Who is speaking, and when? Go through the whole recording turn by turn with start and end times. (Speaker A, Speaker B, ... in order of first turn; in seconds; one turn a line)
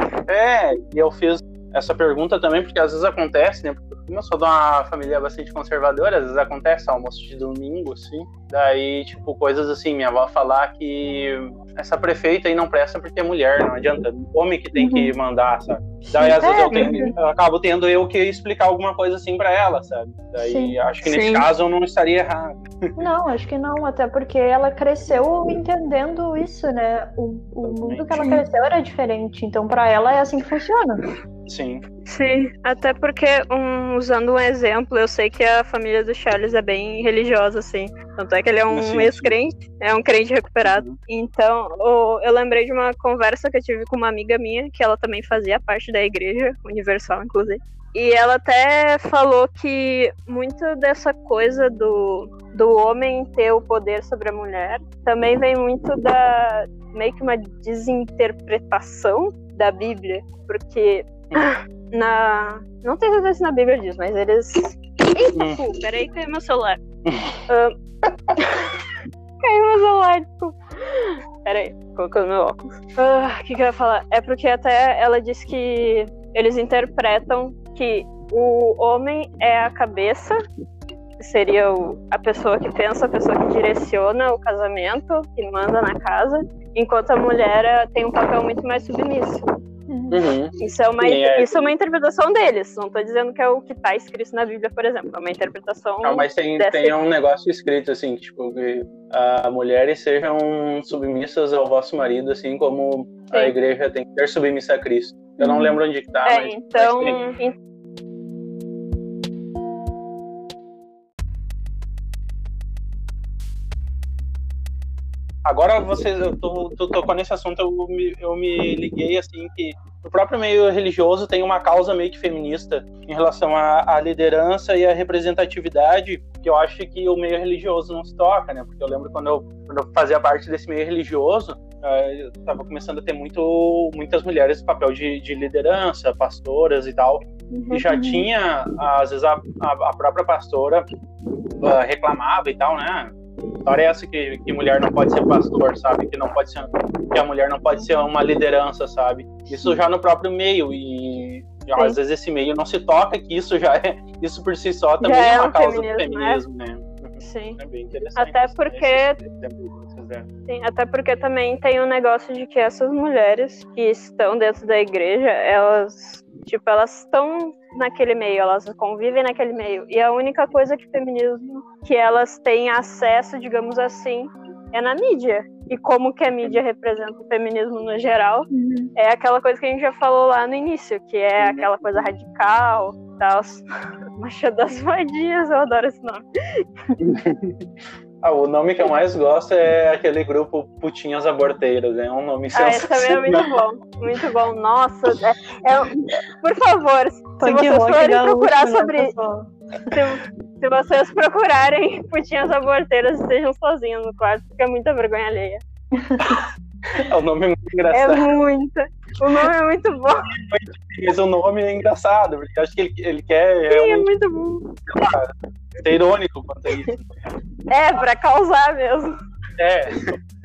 Speaker A: 0.3-22.9
Speaker B: 14.8-15.1
Speaker B: 16.1-17.1
Speaker C: 16.7-17.1
Speaker B: 20.4-20.8
Speaker C: 21.0-21.4
Speaker B: 23.0-31.0
Speaker A: 27.6-28.2
Speaker A: 31.5-31.8
Speaker C: 32.0-66.8
Speaker A: 38.7-39.3
Speaker A: 40.6-41.0
Speaker A: 65.3-65.6
Speaker A: 67.0-67.3
Speaker C: 67.5-67.8
Speaker C: 68.4-68.7
Speaker C: 69.4-80.4
Speaker C: 81.2-89.4
Speaker B: 89.9-90.2
Speaker A: 90.1-91.7
Speaker C: 90.6-96.9
Speaker A: 96.0-107.2
Speaker B: 105.4-105.8
Speaker C: 106.2-107.5
Speaker A: 115.4-140.9
Speaker C: 137.5-137.8
Speaker B: 137.9-138.3
Speaker A: 141.6-143.1
Speaker A: 143.6-160.3
Speaker C: 155.0-156.4
Speaker C: 157.2-157.6
Speaker C: 158.2-159.2
Speaker C: 160.5-183.6
Speaker B: 178.5-178.9
Speaker A: 181.4-182.1
Speaker C: 184.2-186.6
Speaker A: 187.0-187.6
Speaker A: 188.2-193.4
Speaker C: 192.5-199.1
Speaker B: 197.4-200.0
Speaker C: 199.9-205.6
Speaker B: 205.9-206.4
Speaker A: 206.2-208.2
Speaker C: 207.9-210.3
Speaker A: 210.3-214.1
Speaker C: 213.7-214.8
Speaker A: 214.9-215.3
Speaker A: 215.8-217.1
Speaker C: 217.7-219.1
Speaker A: 219.6-220.2